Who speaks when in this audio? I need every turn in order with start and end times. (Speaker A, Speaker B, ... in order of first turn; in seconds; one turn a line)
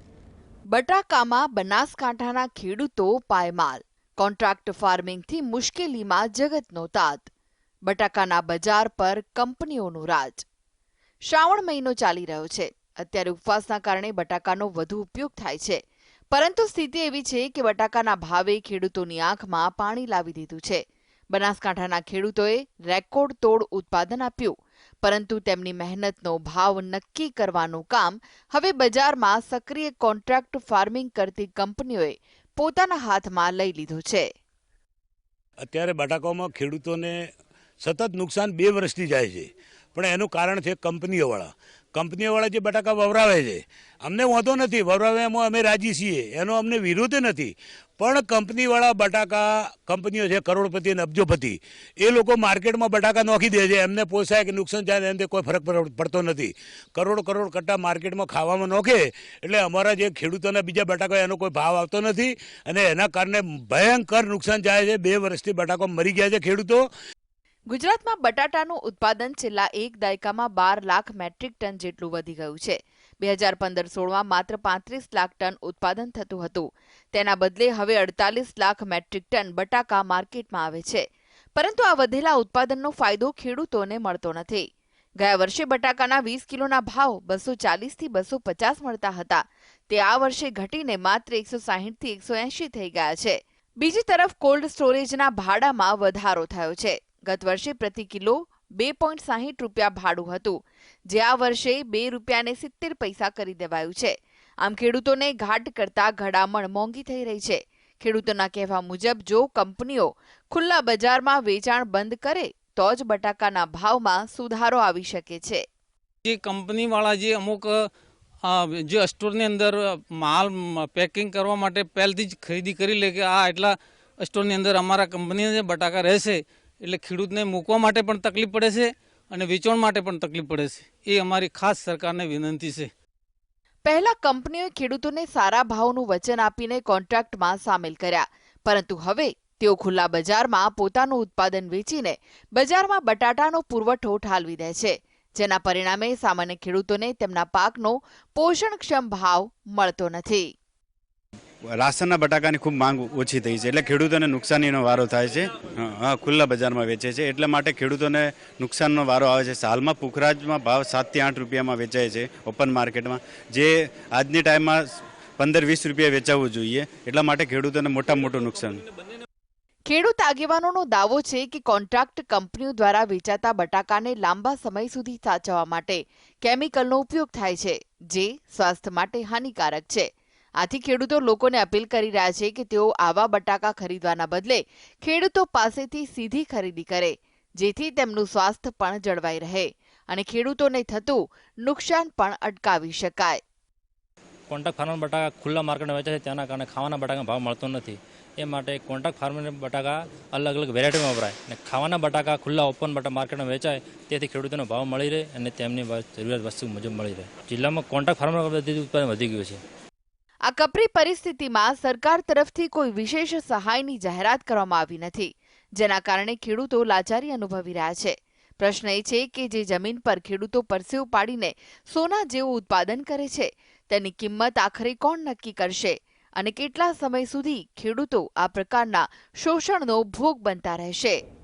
Speaker A: 0.7-7.3
Speaker A: 7.9-10.4
Speaker A: 11.3-15.8
Speaker A: 16.3-20.8
Speaker A: 21.3-34.3
Speaker B: 35.6-37.3
Speaker B: 37.8-66.9
Speaker A: 67.7-81.0
Speaker A: 81.6-84.7
Speaker A: 85.2-100.6
Speaker A: 101.1-115.6
Speaker C: 116.3-117.8
Speaker C: 118.5-132.9
Speaker A: 133.9-150.5
Speaker D: 151.8-164.8
Speaker D: 165.4-168.8
Speaker A: 169.9-180.1
Speaker A: 180.6-193.4
Speaker E: 194.5-209.6
Speaker A: 210.5-231.2